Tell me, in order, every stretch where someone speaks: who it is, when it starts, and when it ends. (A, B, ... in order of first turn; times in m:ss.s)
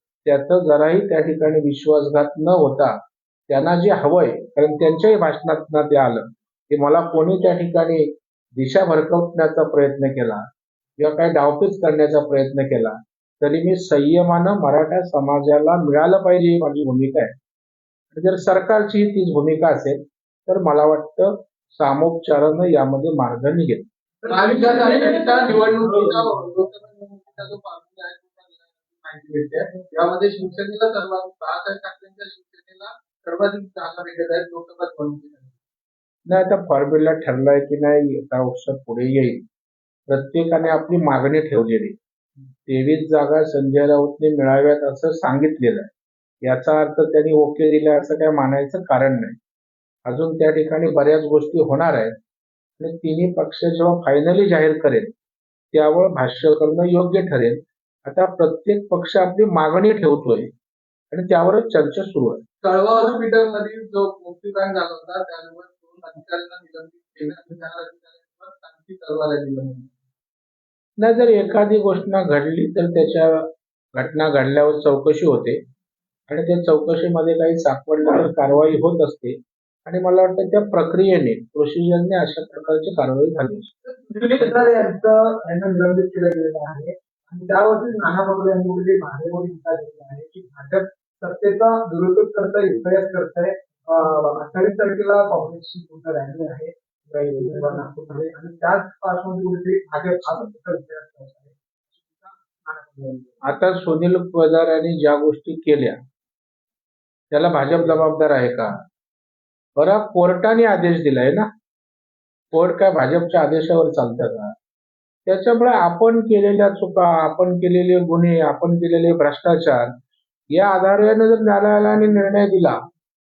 0:00.2-0:02.9 A
0:03.5-0:10.5 A
0:11.0-0:17.3 A
0:18.1-0:23.9 A
0:24.2-0:26.2 B
0:24.2-0:35.6 C
0:36.3-0:39.4 A
0:40.1-0:42.0 A
0:42.7-0:45.9 A
0:46.4-0:49.4 A
0:50.1-0:52.1 A
0:52.8-0:55.1 A
0:55.7-1:00.5 A
1:01.1-1:02.4 A
1:02.6-1:09.9 C
1:11.0-1:15.6 A
1:16.3-1:23.7 A
1:23.9-1:41.6 B
1:42.6-1:43.2 B
1:43.4-1:46.0 A
1:47.3-1:48.8 A
1:49.8-1:51.5 A
1:52.5-1:54.5 A
1:55.2-1:59.9 A
2:00.5-2:02.8 A